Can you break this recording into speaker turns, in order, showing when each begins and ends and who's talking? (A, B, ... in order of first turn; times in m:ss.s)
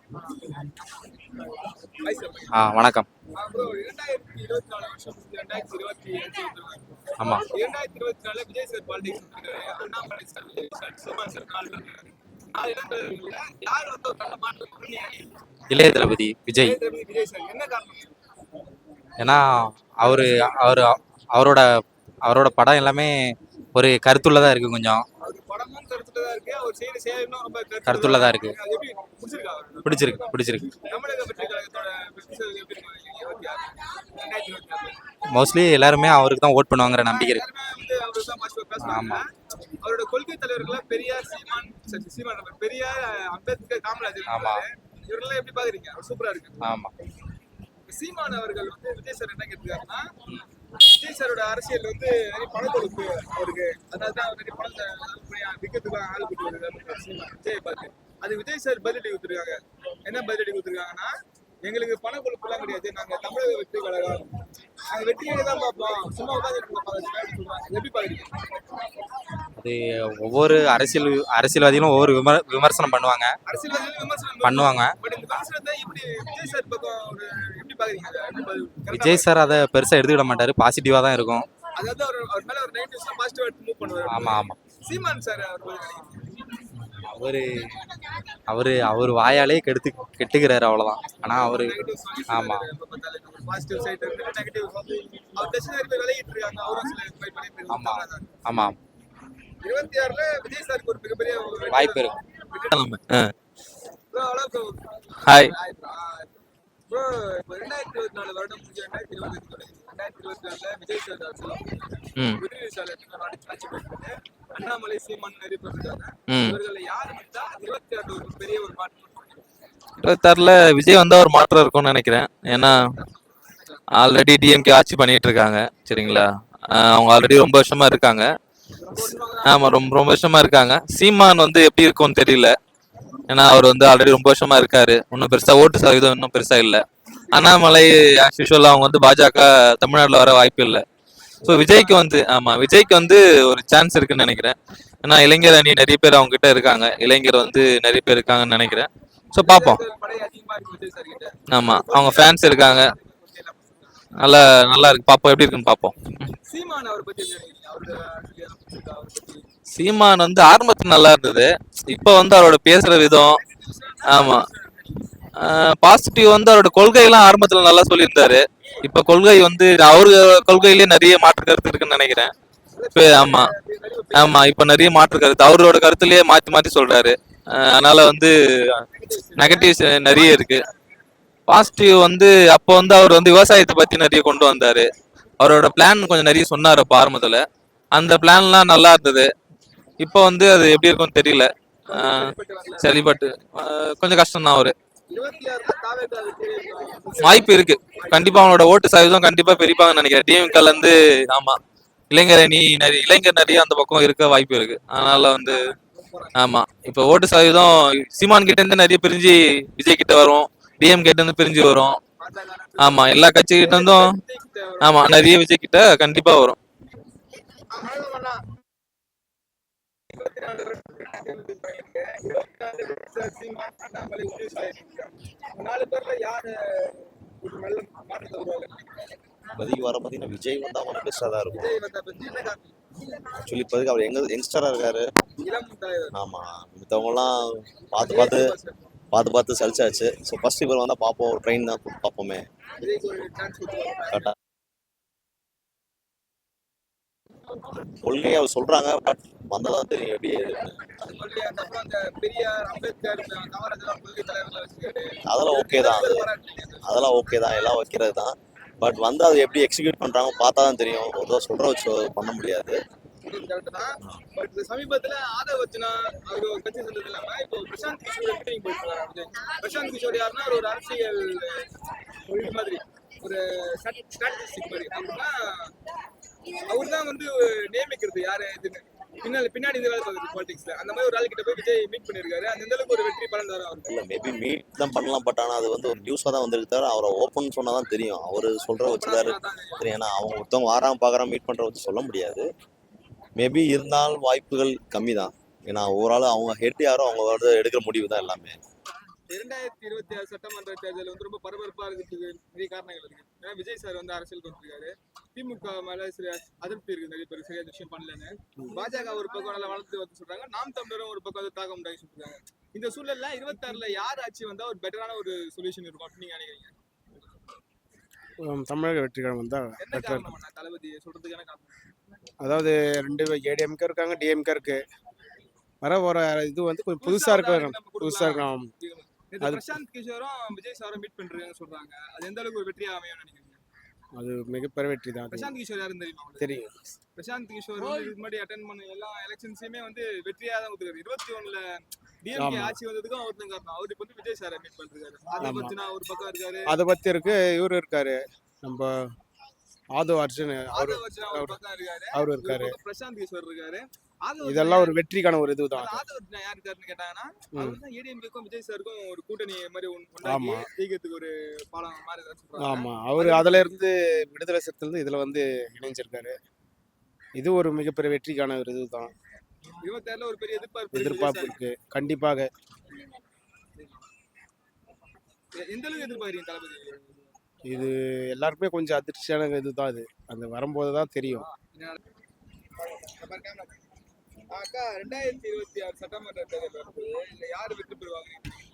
0:00.2-0:00.5 A
0:02.0-0:02.6 A
0:02.5-0:03.1 B
0:03.3-0:15.3 A
0:15.7-0:16.8 B
0:16.6-0:18.2 A
0:19.2-0:25.1 B
0:20.0-0:20.7 A
0:25.2-0:35.0 A
0:27.9-0:28.6 B
0:29.8-0:30.7 B
0:35.3-0:37.4 B
0:37.0-0:39.2 A
0:38.8-0:39.2 B
0:39.8-0:46.6 A
0:44.3-0:44.6 B
0:46.6-0:46.9 B
0:47.9-0:50.1 A
0:50.7-1:04.4 A
1:04.9-1:08.4 A
1:09.6-1:13.4 B
1:13.5-1:19.4 A
1:14.4-1:15.0 B
1:18.9-1:21.5 B
1:21.7-1:26.3 A
1:24.1-1:24.6 B
1:26.9-1:27.9 B
1:28.5-1:32.7 B
1:31.3-1:38.4 A
1:37.7-1:38.8 B
1:39.6-1:42.8 A
1:41.7-1:42.2 B
1:42.7-1:43.3 C
1:44.1-1:51.8 A
1:45.2-1:45.5 C
1:52.4-1:59.4 A
1:56.3-1:56.6 C
2:00.0-2:02.8 C
2:02.5-2:03.8 A
2:04.0-2:08.3 C
2:08.8-2:09.8 A
2:09.4-2:12.6 C
2:13.3-2:20.8 C
2:21.4-2:29.8 C
2:21.5-2:22.0 A
2:29.4-2:33.9 A
2:31.5-2:32.9 C
2:34.2-2:36.3 C
2:36.4-2:39.5 A
2:39.8-2:43.4 C
2:43.4-2:44.8 A
2:44.0-2:44.5 C
2:45.4-2:52.3 C
2:52.7-2:54.5 A
2:52.9-2:53.5 C
2:54.1-2:58.8 C
2:59.0-3:00.3 A
2:59.4-3:00.6 C
3:01.5-3:04.9 C
3:05.4-3:09.3 C
3:10.0-3:12.2 C
3:11.9-3:13.2 A
3:12.8-3:14.8 C
3:15.1-3:18.6 A
3:17.2-3:21.6 C
3:22.1-3:25.6 C
3:25.3-3:26.4 A
3:26.4-3:32.0 C
3:32.2-3:35.3 A
3:32.8-3:34.1 C
3:34.8-3:36.6 C
3:37.6-3:38.4 A
3:40.1-3:49.0 A
3:49.6-3:51.8 D
3:51.6-3:52.8 A
3:53.4-3:55.1 D
3:55.4-3:56.2 A
3:56.1-3:58.5 D
3:58.0-3:58.9 A
3:59.1-4:02.5 D
4:02.8-4:04.3 A
4:08.0-4:10.8 D
4:10.8-4:17.0 A
4:15.3-4:16.3 D
4:16.8-4:22.8 D
4:23.2-4:31.7 A
4:32.2-4:35.7 A
4:36.6-4:43.9 A
4:43.9-4:52.5 D
4:48.9-4:49.9 A
4:53.4-4:58.6 D
4:59.3-5:16.8 A
5:18.4-5:20.3 E
5:19.8-5:21.8 A
5:22.4-5:24.8 E
5:25.8-5:28.7 E
5:27.0-5:33.6 A
5:29.4-5:29.8 E
5:34.2-5:35.6 E
5:35.3-5:36.6 A
5:36.4-5:36.8 E
5:37.2-5:46.7 A
5:42.4-5:42.8 E
5:45.4-5:45.8 E
5:46.7-5:48.9 E
5:50.0-5:51.6 E
5:50.7-5:55.0 A
5:52.1-5:52.8 E
5:54.4-5:56.0 E
5:55.8-6:03.8 A
5:57.6-5:57.8 E
6:00.2-6:00.7 E
6:02.6-6:06.4 E
6:07.4-6:09.1 E
6:09.8-6:11.6 A
6:10.9-6:12.5 E
6:13.8-6:14.1 A
6:15.5-6:17.1 A
6:17.6-6:21.5 E
6:21.3-6:22.0 A
6:22.8-6:23.8 A
6:24.5-6:28.4 A